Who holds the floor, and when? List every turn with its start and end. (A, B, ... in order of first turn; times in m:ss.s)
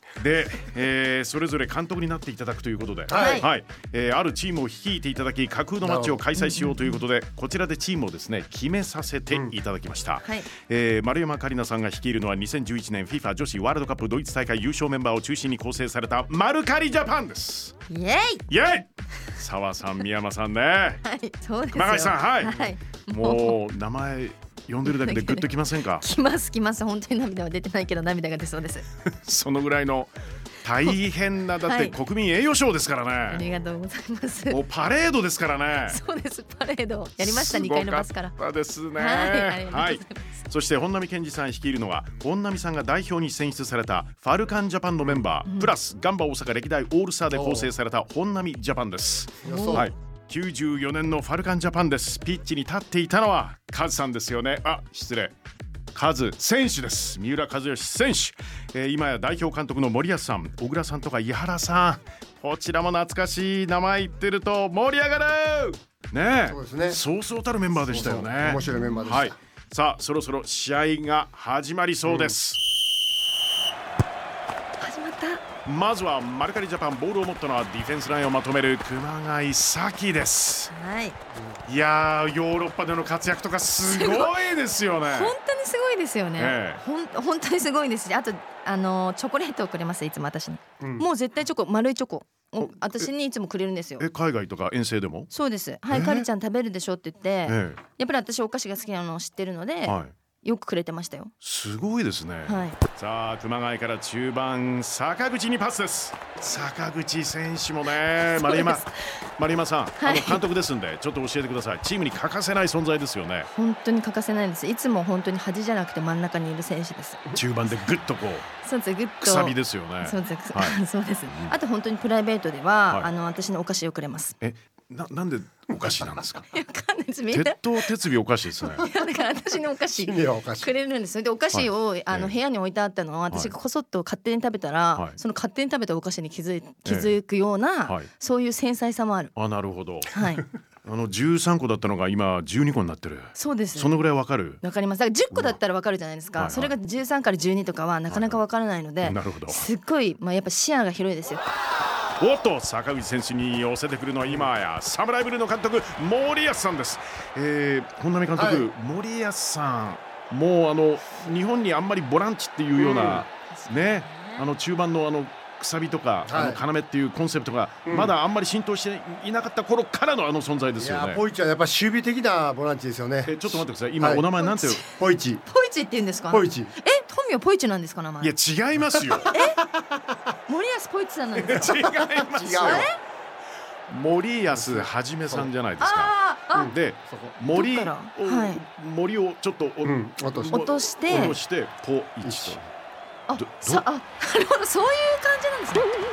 0:00.2-0:17.7 A
0:03.1-0:03.4 B
0:03.1-0:03.5 C
0:05.8-0:06.2 B
0:06.4-0:07.0 C
0:10.2-0:10.5 C
0:17.9-0:18.4 C
0:18.5-0:21.0 A
0:21.0-0:23.6 C
0:21.7-0:22.6 A
0:23.1-0:26.0 A
0:24.8-0:28.8 C
0:29.0-0:30.1 A
0:30.6-0:33.4 A
0:31.6-0:32.0 C
0:33.3-0:34.6 C
0:34.5-0:36.0 A
0:35.9-0:38.4 C
0:37.2-0:55.3 A
0:38.9-0:40.4 C
0:45.4-0:45.7 C
0:47.3-0:47.7 B
0:49.4-0:49.9 B
0:49.4-0:49.9 C
0:55.9-1:12.6 A
1:06.4-1:07.0 B
1:07.8-1:09.3 B
1:08.6-1:09.2 C
1:12.1-1:12.3 B
1:14.8-1:15.4 C
1:15.6-1:20.7 A
1:20.7-1:21.2 C
1:21.3-1:21.6 B
1:21.6-1:25.3 A
1:23.8-1:24.4 C
1:25.0-1:34.0 C
1:26.4-1:26.8 A
1:30.8-1:31.0 B
1:32.6-1:33.1 A
1:34.0-1:35.3 A
1:35.3-1:41.3 C
1:35.9-1:36.2 A
1:37.5-1:37.8 A
1:39.8-1:40.1 A
1:41.4-1:48.8 A
1:42.4-1:42.8 C
1:48.4-1:48.9 C
1:49.4-1:53.5 A
1:50.0-1:50.4 C
1:53.5-1:57.2 C
1:57.3-1:58.5 A
1:58.6-2:04.4 C
1:59.2-2:01.6 A
2:04.4-2:06.5 A
2:06.5-2:07.9 C
2:07.3-2:08.9 A
2:08.7-2:19.3 C
2:09.9-2:10.7 B
2:11.5-2:12.3 A
2:13.3-2:13.5 A
2:16.8-2:17.2 A
2:19.4-2:20.2 A
2:20.1-2:20.4 C
2:20.8-2:24.6 A
2:23.3-2:24.0 C
2:24.6-2:31.4 C
2:25.3-2:25.6 A
2:26.4-2:26.7 A
2:28.1-2:28.4 A
2:29.0-2:29.6 A
2:32.2-2:51.2 A
2:38.3-2:38.7 B
2:42.8-2:43.2 B
2:43.5-2:44.5 C
2:46.2-2:46.6 B
2:47.8-2:48.1 B
2:50.8-2:54.3 B
2:53.2-2:54.8 A
2:54.4-2:54.9 C
2:54.9-2:55.4 B
2:55.4-2:58.3 C
2:56.3-2:56.7 B
2:58.2-2:59.3 A
2:59.0-3:00.0 B
2:59.3-2:59.6 C
3:00.5-3:01.8 C
3:01.3-3:02.9 A
3:01.7-3:02.9 B
3:02.6-3:03.0 C
3:03.9-3:12.7 A
3:04.5-3:05.5 B
3:05.8-3:06.7 C
3:06.5-3:07.4 B
3:07.5-3:08.6 C
3:09.8-3:11.4 B
3:10.4-3:11.4 C
3:12.2-3:12.6 B
3:13.3-3:15.9 C
3:13.4-3:13.8 A